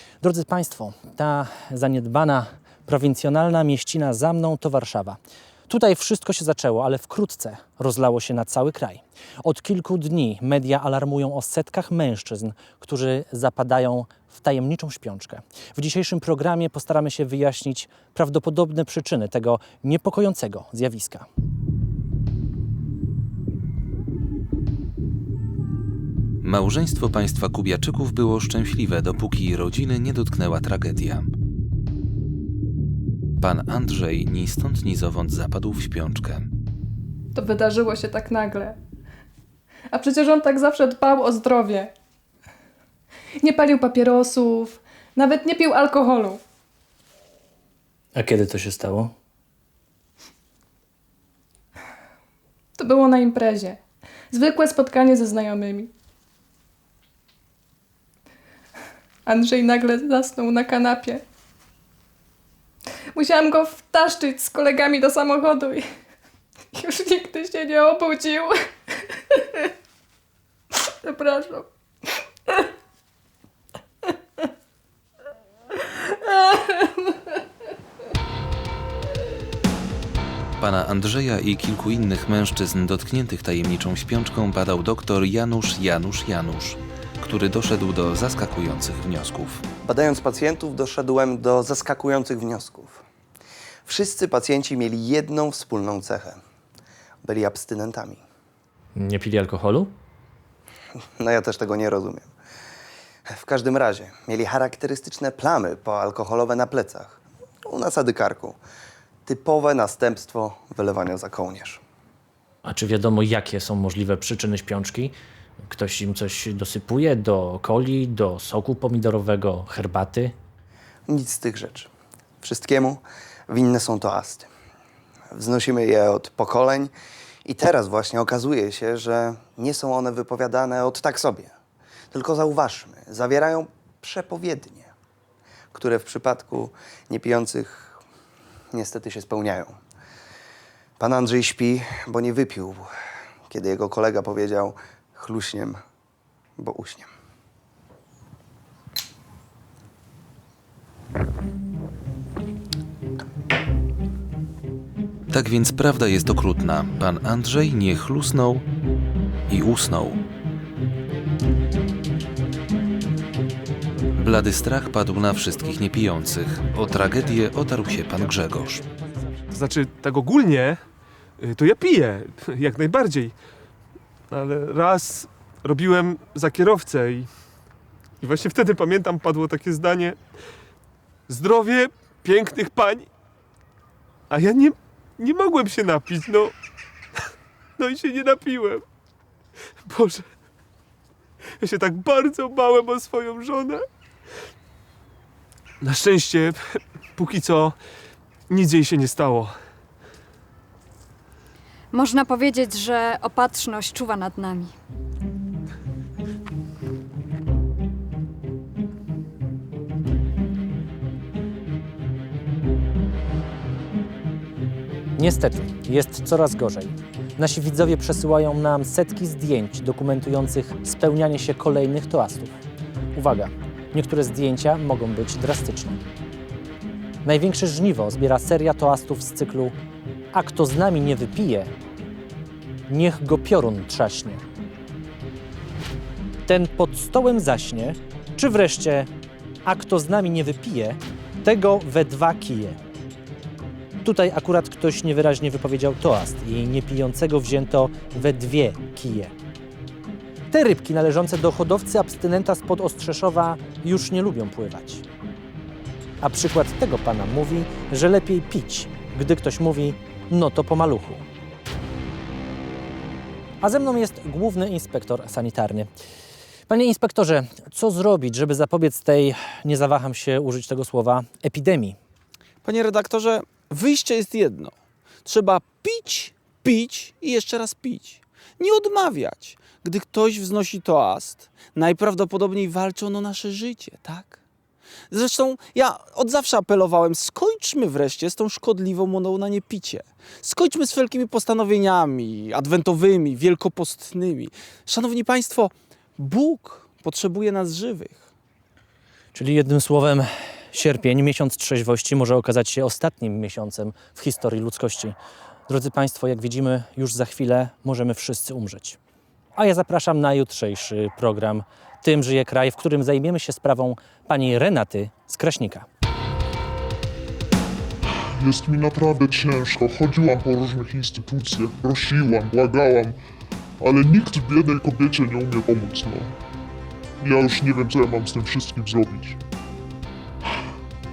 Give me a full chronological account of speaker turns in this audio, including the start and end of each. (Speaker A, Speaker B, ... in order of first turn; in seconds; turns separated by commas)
Speaker A: 0.2-21.3, Speaker B: 26.4-31.3, Speaker B: 33.4-36.5, Speaker C: 37.4-38.8, Speaker C: 39.9-41.9, Speaker C: 43.4-46.4, Speaker A: 48.2-49.1, Speaker C: 52.8-53.8, Speaker C: 54.3-55.9, Speaker C: 59.3-61.2, Speaker C: 63.1-65.8, Speaker C: 66.7-68.6, Speaker C: 69.3-69.7, Speaker C: 71.0-71.7, Speaker C: 76.5-76.8, Speaker B: 80.6-89.6, Speaker D: 89.8-93.0, Speaker D: 93.8-96.4, Speaker D: 97.2-98.2, Speaker A: 99.0-99.9, Speaker D: 101.2-102.3, Speaker D: 103.3-108.6, Speaker D: 109.3-111.8, Speaker A: 112.7-120.3, Speaker D: 121.1-121.9, Speaker D: 122.4-124.5, Speaker D: 125.3-126.9, Speaker D: 127.5-131.5, Speaker D: 132.1-134.9, Speaker D: 135.7-138.0, Speaker D: 138.7-139.8, Speaker D: 141.0-142.9, Speaker D: 143.5-145.8, Speaker D: 146.6-147.1, Speaker B: 155.3-158.6, Speaker B: 159.5-160.2, Speaker B: 164.2-168.8, Speaker E: 169.5-170.8, Speaker E: 171.4-173.3, Speaker E: 174.3-177.3, Speaker E: 178.2-180.2, Speaker E: 181.3-183.1, Speaker E: 184.3-186.5, Speaker E: 187.8-188.8, Speaker E: 189.9-190.3, Speaker E: 191.6-193.9, Speaker E: 195.8-197.8, Speaker E: 198.5-199.6, Speaker F: 201.9-204.7, Speaker A: 215.2-222.5, Speaker A: 223.2-226.0, Speaker A: 227.2-229.8, Speaker A: 230.3-231.7, Speaker A: 232.9-234.4, Speaker A: 236.5-239.1, Speaker A: 239.7-242.8, Speaker A: 244.0-249.3, Speaker A: 250.5-255.0, Speaker A: 256.2-261.2, Speaker A: 263.6-265.9, Speaker A: 266.7-272.0, Speaker G: 272.6-284.4, Speaker G: 285.1-298.3, Speaker A: 299.3-305.2, Speaker A: 305.7-309.0, Speaker A: 309.6-315.9, Speaker H: 318.4-323.2, Speaker H: 323.8-326.3, Speaker H: 327.2-329.4